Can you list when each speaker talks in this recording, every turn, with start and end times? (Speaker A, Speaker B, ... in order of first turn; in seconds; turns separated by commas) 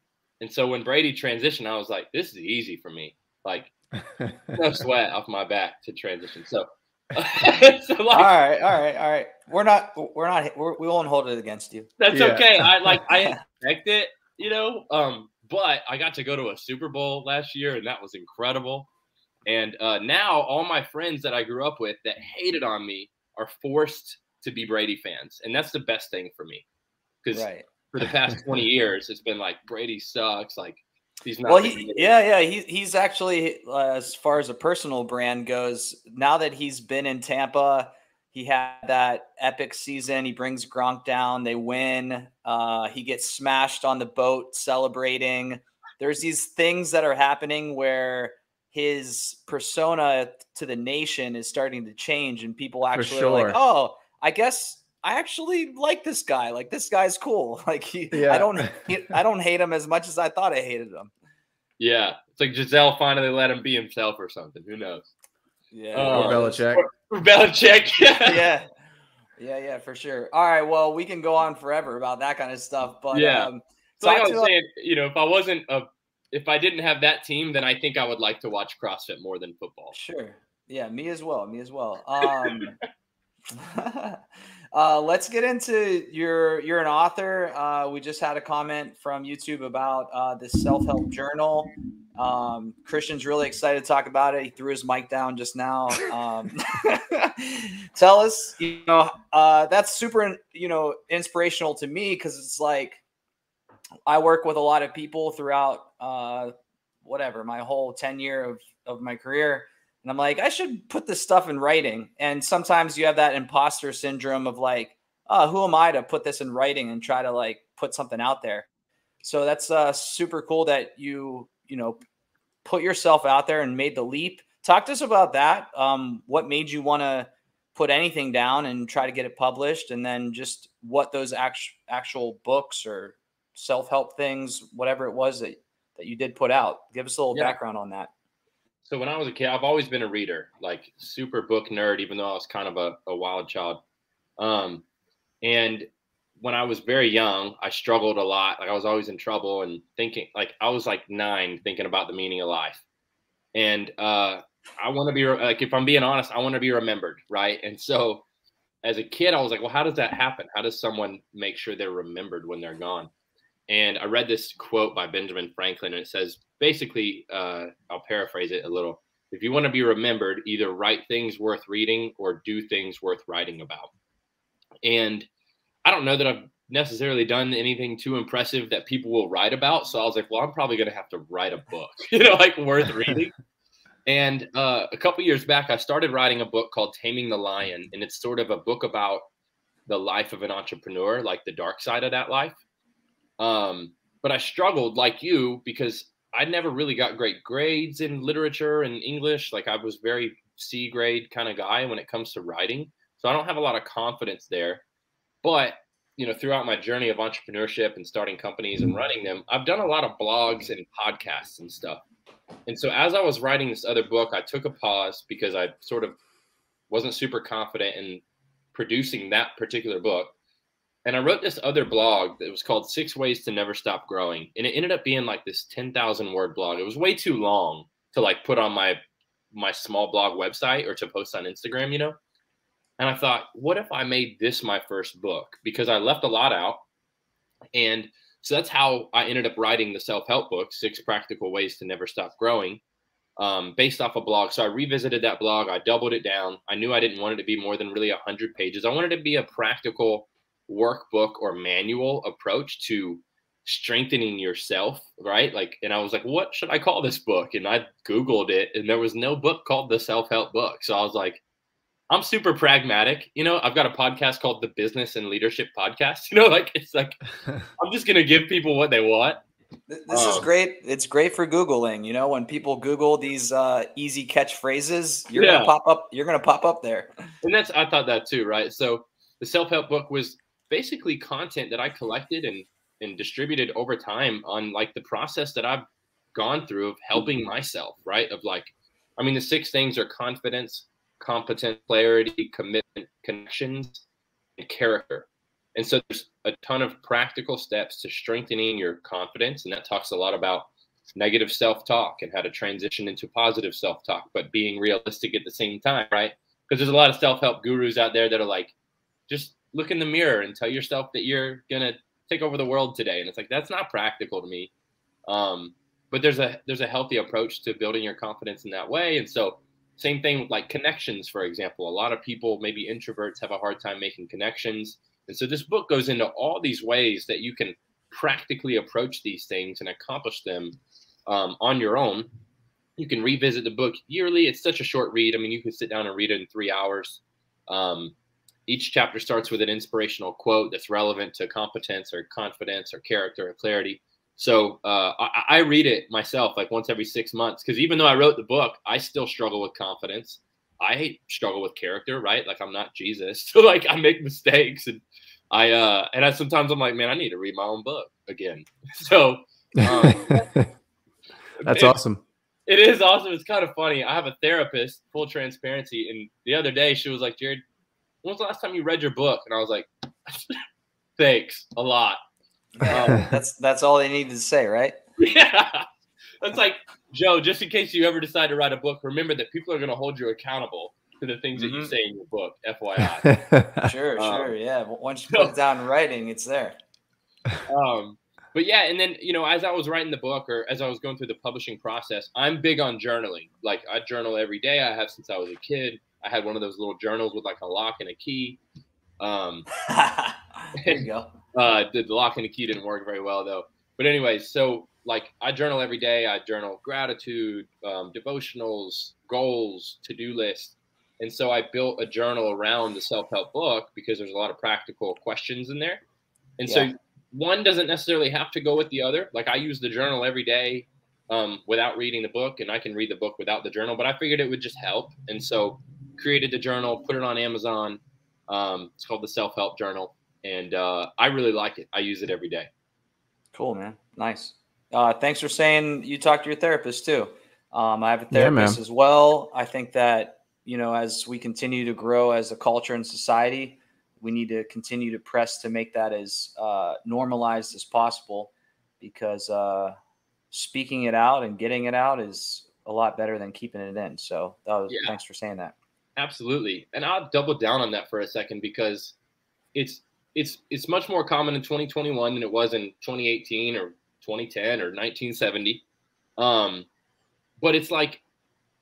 Speaker A: 0.4-3.7, Speaker B: 4.1-4.4, Speaker A: 4.5-8.3, Speaker C: 8.1-11.9, Speaker A: 12.0-18.9, Speaker B: 12.1-13.0, Speaker A: 19.5-26.6, Speaker A: 27.2-32.1, Speaker C: 27.3-27.7, Speaker C: 31.5-61.1, Speaker B: 52.9-53.6, Speaker B: 58.1-58.8, Speaker A: 61.8-65.1, Speaker C: 65.7-66.6, Speaker A: 65.9-68.5, Speaker B: 66.1-66.8, Speaker C: 68.2-68.7, Speaker C: 69.4-74.5, Speaker A: 73.1-80.0, Speaker C: 79.9-82.8, Speaker A: 82.2-82.7, Speaker C: 83.5-84.2, Speaker C: 84.7-103.0, Speaker C: 104.1-106.5, Speaker C: 107.0-118.7, Speaker C: 119.2-122.0, Speaker C: 122.7-138.1, Speaker A: 138.8-143.8, Speaker A: 144.4-144.8, Speaker A: 145.4-145.9, Speaker A: 146.4-152.8, Speaker A: 153.5-158.2, Speaker A: 158.8-163.1, Speaker A: 163.7-173.9, Speaker A: 174.8-175.3, Speaker A: 175.8-183.4, Speaker A: 184.1-189.2, Speaker A: 189.9-192.6, Speaker A: 193.4-204.8, Speaker A: 205.4-212.0, Speaker A: 212.7-216.2, Speaker A: 216.9-218.2, Speaker A: 218.7-220.3, Speaker A: 221.1-229.0, Speaker A: 229.5-232.2, Speaker A: 233.0-236.8, Speaker A: 237.7-242.8, Speaker A: 243.4-261.4, Speaker A: 262.1-267.3, Speaker A: 267.8-269.4, Speaker C: 269.9-277.1, Speaker A: 270.1-270.5, Speaker A: 275.3-275.7, Speaker A: 277.4-294.0, Speaker A: 294.6-308.7, Speaker A: 309.3-314.7, Speaker A: 315.3-332.3, Speaker A: 333.0-338.1, Speaker A: 338.7-360.5, Speaker B: 359.8-360.7, Speaker A: 361.6-362.0, Speaker B: 361.6-362.2, Speaker A: 362.7-367.6, Speaker A: 368.2-370.6, Speaker A: 371.2-372.2, Speaker C: 372.8-375.0, Speaker A: 372.9-373.4, Speaker A: 375.2-375.9, Speaker A: 376.4-383.4, Speaker C: 381.6-381.9, Speaker B: 383.2-383.9, Speaker C: 383.8-386.8, Speaker A: 384.2-384.5, Speaker A: 387.7-398.6, Speaker A: 399.2-399.7, Speaker C: 399.9-401.4, Speaker A: 400.8-416.0, Speaker A: 416.6-432.7, Speaker C: 433.6-450.0, Speaker B: 438.3-438.8, Speaker C: 450.5-455.8, Speaker A: 456.2-459.1, Speaker A: 459.8-465.8, Speaker A: 466.4-466.9, Speaker A: 467.6-468.2